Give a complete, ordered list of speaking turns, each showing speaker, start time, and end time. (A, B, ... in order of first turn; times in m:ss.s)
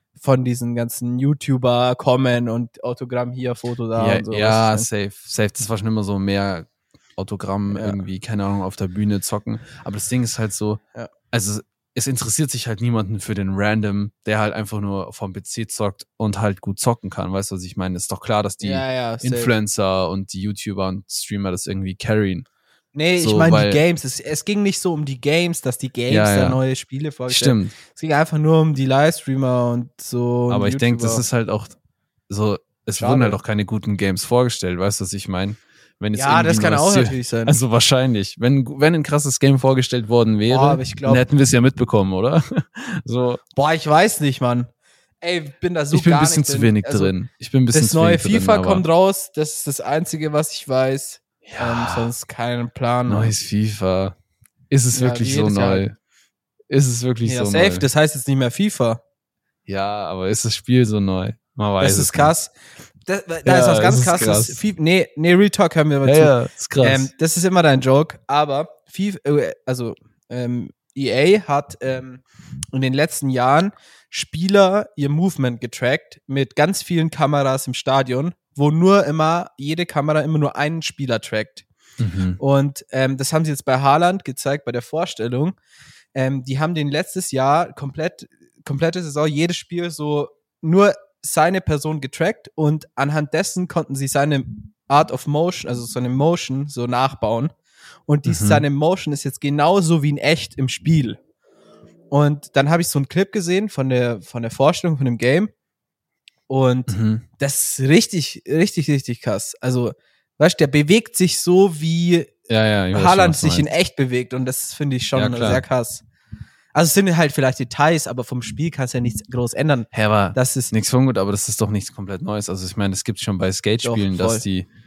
0:00.2-0:04.9 A
0:04.0-0:22.4 B
0:07.7-0:08.0 A
0:18.6-0:19.5 A
0:22.9-0:31.2 A
0:23.2-0:23.8 B
0:26.1-0:26.6 B
0:27.3-0:27.7 B
0:30.5-0:31.8 B
0:32.3-0:43.4 B
0:33.0-0:33.4 A
0:36.1-0:37.6 A
0:40.5-0:41.2 A
0:43.5-0:44.7 A
0:45.2-0:47.1 A
0:45.9-0:48.8 B
0:47.7-0:53.3 A
0:51.4-0:52.1 B
0:53.1-0:54.1 B
0:54.7-0:56.0 B
0:54.9-0:55.8 A
0:56.7-0:57.9 B
0:57.2-0:59.0 A
0:59.7-1:02.3 B
1:01.8-1:02.5 A
1:03.0-1:21.6 A
1:03.4-1:04.6 B
1:06.0-1:07.1 B
1:22.0-1:22.4 B
1:22.4-1:25.6 A
1:26.1-1:37.5 A
1:38.1-1:41.2 A
1:38.2-1:38.6 B
1:42.1-1:45.5 A
1:46.5-1:52.3 A
1:46.9-1:47.2 B
1:52.5-1:53.7 B
1:52.9-1:56.0 A
1:55.1-1:55.6 B
1:56.7-2:00.7 A
1:59.9-2:04.7 B
2:03.8-2:04.4 A